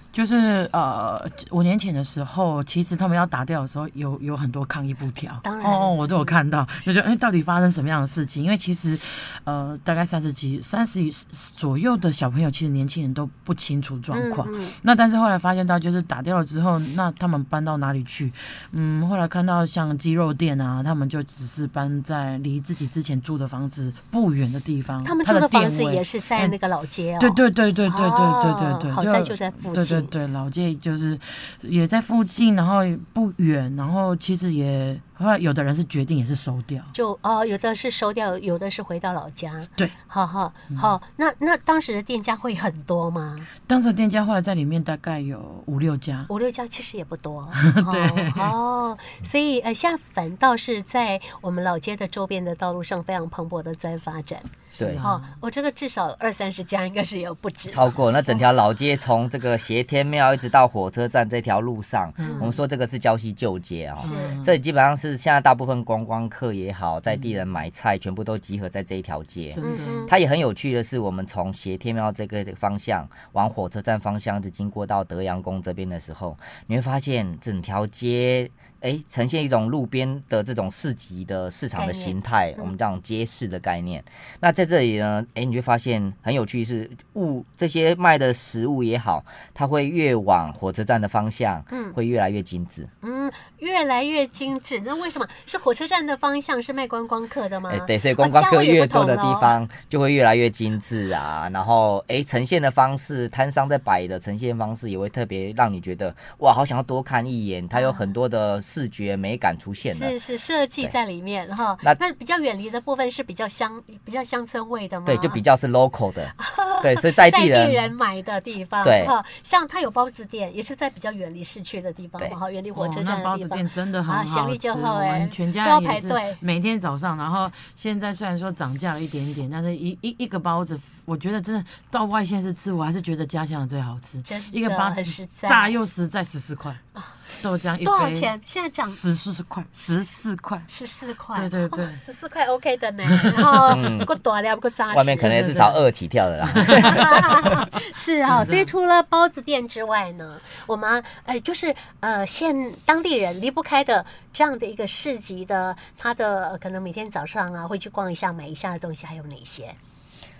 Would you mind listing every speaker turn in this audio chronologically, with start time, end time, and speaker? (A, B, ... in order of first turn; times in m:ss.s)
0:00.1-0:26.5 A
0:05.4-0:06.4 B
0:14.1-0:14.8 B
0:25.0-0:30.1 B
0:27.2-0:36.9 A
0:36.9-0:43.5 B
0:43.7-0:46.3 A
0:46.3-0:58.4 B
0:47.5-0:48.5 A
0:54.7-0:55.3 A
0:57.7-1:32.9 C
1:02.2-1:02.6 A
1:02.2-1:02.5 B
1:04.0-1:04.6 A
1:04.0-1:04.4 B
1:07.1-1:07.4 A
1:09.5-1:10.1 A
1:09.6-1:10.1 B
1:21.7-1:22.7 B
1:31.7-1:32.0 B
1:33.0-1:39.6 B
1:37.7-1:50.2 C
1:47.7-1:48.0 B
1:49.8-1:55.4 B
1:55.0-1:57.9 C
1:56.4-2:06.4 B
1:58.8-1:59.1 C
2:02.7-2:18.3 A
2:14.2-2:15.8 B
2:17.8-2:19.0 B
2:18.8-2:20.7 A
2:20.7-2:25.4 B
2:21.3-2:22.0 A
2:23.1-2:23.8 A
2:23.7-2:24.1 C
2:24.9-2:27.6 C
2:25.3-2:25.8 A
2:26.4-2:27.0 A
2:26.6-2:39.8 B
2:28.3-2:28.7 A